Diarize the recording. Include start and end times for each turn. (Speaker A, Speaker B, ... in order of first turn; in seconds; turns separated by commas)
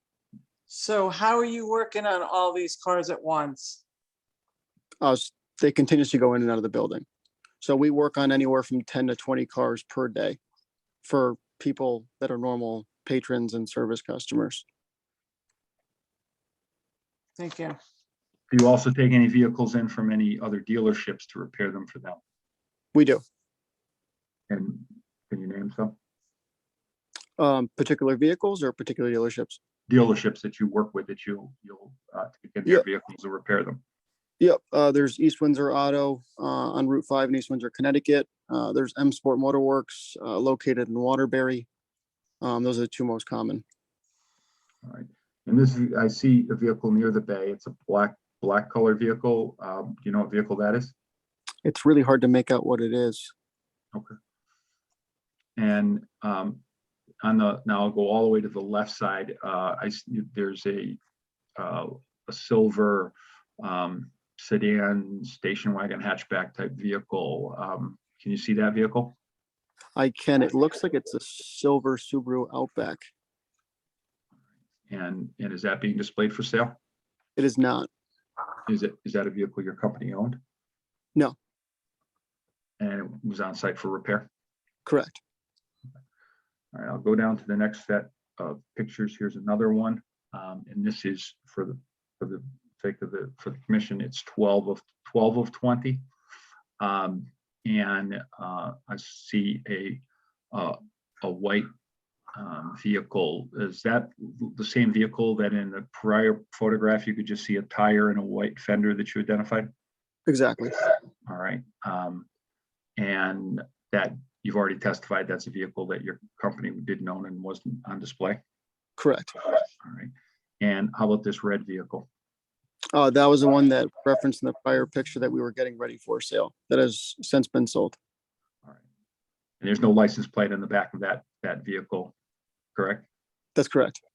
Speaker A: 0.7-3.8, Speaker B: 5.0-7.0, Speaker B: 7.6-10.4, Speaker B: 11.0-14.6, Speaker A: 17.4-17.8, Speaker C: 18.5-22.2, Speaker B: 22.9-23.2, Speaker C: 24.5-25.9, Speaker B: 27.4-29.6, Speaker C: 29.9-33.8, Speaker B: 34.4-41.7, Speaker B: 42.4-43.6, Speaker C: 44.8-50.9, Speaker B: 51.6-53.3, Speaker C: 55.6-56.6, Speaker C: 57.2-61.0, Speaker C: 61.6-69.1, Speaker B: 70.0-73.0, Speaker C: 74.9-76.8, Speaker B: 77.3-77.9, Speaker C: 78.7-80.4, Speaker C: 82.8-84.3, Speaker B: 84.8-85.2, Speaker C: 86.7-96.0, Speaker C: 96.8-100.0, Speaker C: 100.5-101.7, Speaker C: 102.3-109.7, Speaker B: 110.3-110.8, Speaker C: 111.3-112.3, Speaker C: 113.0-118.4, Speaker B: 119.0-119.3, Speaker C: 119.8-122.1, Speaker B: 122.9-128.0, Speaker C: 129.6-132.1, Speaker C: 132.7-133.1, Speaker B: 133.6-134.0